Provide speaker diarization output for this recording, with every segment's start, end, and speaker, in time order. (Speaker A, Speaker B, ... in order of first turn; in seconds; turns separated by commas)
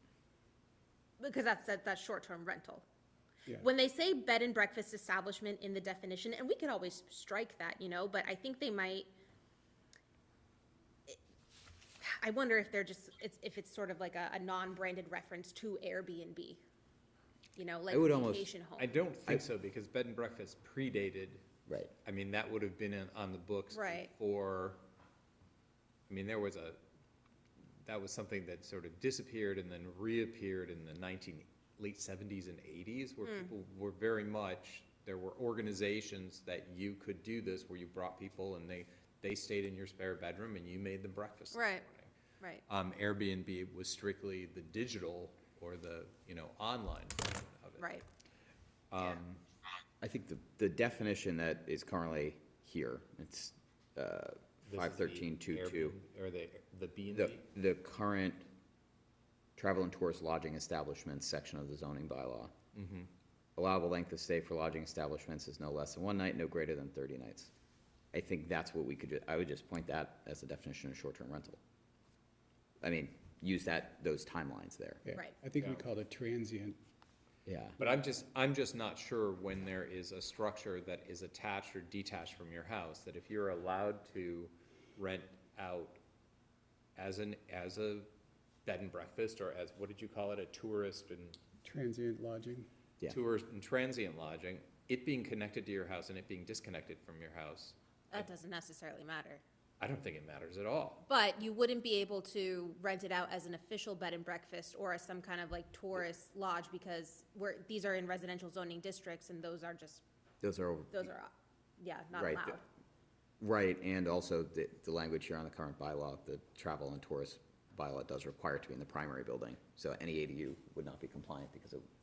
Speaker A: 1.2-2.8, Speaker A: 3.5-9.1, Speaker A: 12.0-16.6, Speaker A: 17.6-18.9, Speaker B: 17.9-18.5, Speaker C: 18.8-21.4, Speaker B: 21.7-21.9, Speaker C: 22.0-24.8, Speaker A: 23.7-24.1, Speaker C: 26.1-26.8, Speaker C: 27.8-42.1, Speaker A: 33.2-33.5, Speaker A: 41.5-41.9, Speaker C: 42.7-47.9, Speaker A: 47.8-48.0, Speaker C: 48.9-49.4, Speaker B: 50.0-56.0, Speaker C: 54.7-57.4, Speaker B: 57.1-58.5, Speaker B: 59.5-62.5, Speaker C: 62.7-63.1, Speaker B: 63.5-67.5, Speaker B: 68.1-71.6, Speaker B: 72.8-75.0, Speaker D: 75.0-76.8, Speaker C: 75.6-75.8, Speaker B: 77.5-77.8, Speaker C: 77.8-86.0, Speaker C: 87.0-88.1, Speaker C: 88.7-91.4, Speaker D: 91.6-92.7, Speaker C: 93.1-98.3, Speaker A: 98.1-99.4, Speaker C: 99.8-101.0, Speaker A: 101.0-110.0, Speaker B: 110.4-111.1, Speaker A: 110.9-112.6, Speaker B: 112.1-112.5, Speaker B: 113.4-121.8